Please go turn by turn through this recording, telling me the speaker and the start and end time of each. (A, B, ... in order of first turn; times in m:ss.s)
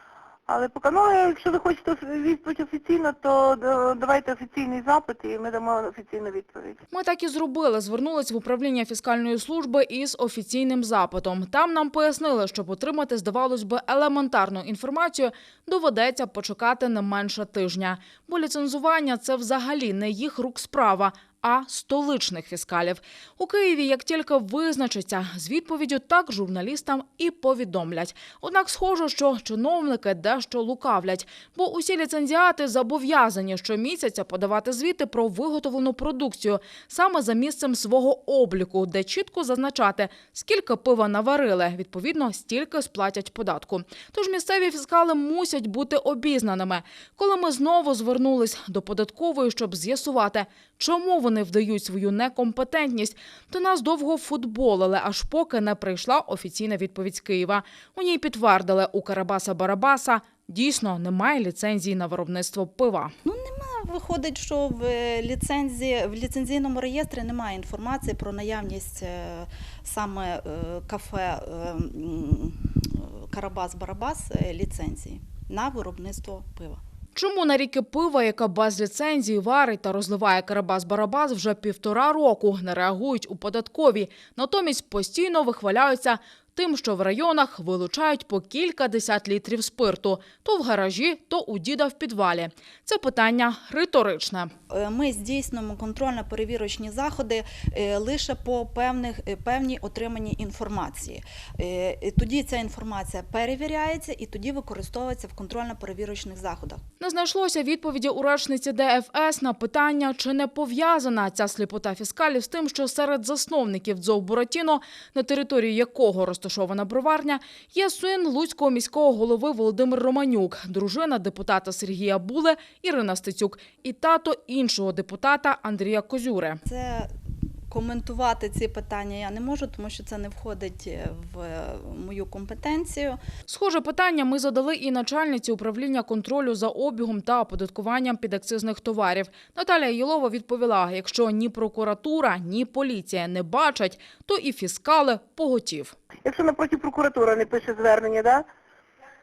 0:00.5-0:06.8 A
0:06.9-1:03.1 B
1:03.2-1:16.8 C
1:17.2-1:34.5 B
1:34.7-1:46.8 C
1:47.0-2:06.6 B
2:06.6-2:07.1 C
2:07.7-2:13.2 C
2:13.5-2:26.0 B
2:26.2-2:28.5 A